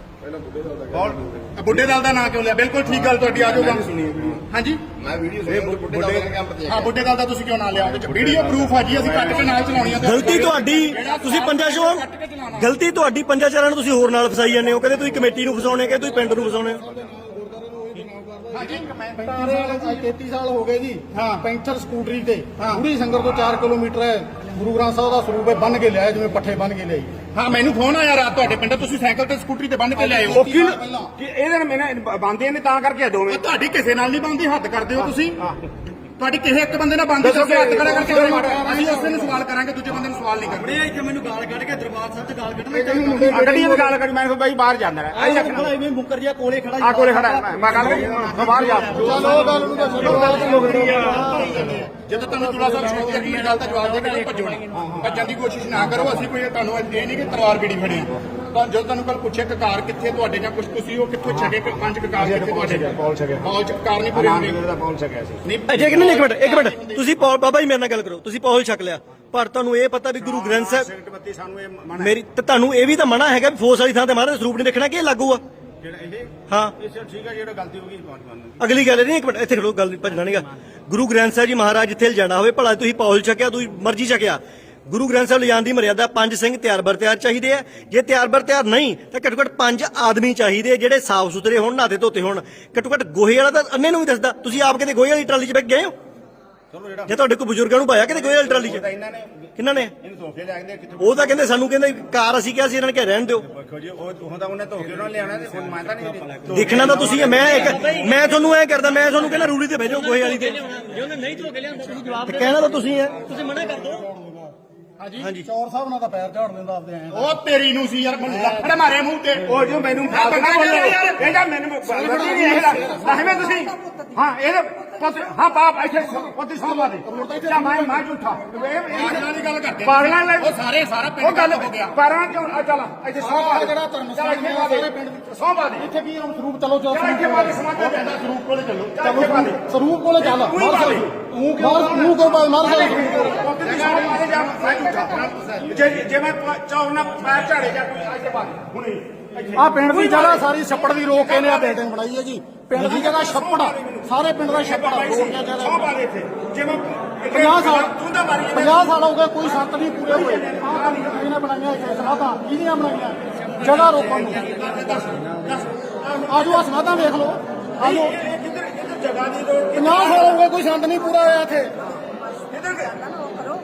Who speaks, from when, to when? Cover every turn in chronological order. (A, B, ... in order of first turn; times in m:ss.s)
0:00.9-0:01.5 A
0:01.5-0:03.8 B
0:02.8-0:04.4 A
0:04.5-0:04.8 B
0:05.0-0:06.9 A
0:05.5-0:12.7 B
0:07.7-0:11.1 A
0:10.0-0:16.8 C
0:16.0-0:27.2 D
0:17.9-0:19.9 A
0:19.4-0:19.9 B
0:21.1-0:21.4 B
0:27.3-0:30.5 B
0:30.0-0:31.1 D
0:30.2-0:33.4 A
0:33.3-0:35.4 B
0:35.0-0:35.6 A
0:36.2-0:40.8 B
0:37.2-0:38.1 A
0:37.7-0:39.3 D
0:40.7-0:43.8 D
0:43.1-0:45.8 A
0:45.1-0:51.9 D
0:46.8-0:49.4 A
0:50.0-0:51.8 A
0:50.1-0:50.5 B
0:51.9-1:02.9 B
0:52.5-0:54.2 D
0:54.7-0:55.2 A
1:01.2-1:01.5 A
1:02.2-1:03.5 A
1:03.4-1:04.6 B
1:04.1-1:05.4 A
1:05.4-1:07.0 B
1:05.7-1:10.9 C
1:10.1-1:12.2 A
1:12.0-1:15.4 C
1:15.8-1:18.7 A
1:16.5-1:16.7 C
1:18.6-1:35.9 C
1:36.7-1:37.2 A
1:37.1-1:38.8 C
1:38.0-1:41.5 A
1:39.6-1:39.9 C
1:41.0-1:43.4 C
1:43.4-1:48.3 A
1:46.5-1:50.7 C
1:47.4-1:48.1 E
1:49.8-1:52.6 E
1:51.8-1:52.5 D
1:52.0-1:53.4 C
1:53.2-1:54.0 E
1:53.4-1:54.5 D
1:55.0-1:55.3 B
1:55.2-1:55.5 C
1:55.4-1:57.3 D
1:57.1-2:01.2 B
1:58.3-1:58.7 D
1:59.4-2:09.3 A
2:01.9-2:03.5 D
2:02.1-2:02.7 B
2:05.8-2:06.3 B
2:06.6-2:08.0 D
2:08.9-2:11.9 B
2:09.8-2:10.5 A
2:11.2-2:15.9 A
2:13.1-2:15.2 D
2:15.8-2:23.5 D
2:16.9-2:18.2 A
2:18.9-2:19.6 A
2:20.1-2:31.9 A
2:22.8-2:25.7 B
2:29.5-2:35.9 D
2:32.7-2:41.4 A
2:37.3-2:37.9 D
2:38.5-2:44.5 D
2:43.5-2:46.8 A
2:46.2-2:48.2 D
2:47.8-2:50.4 A
2:49.7-2:51.8 D
2:52.5-2:53.1 A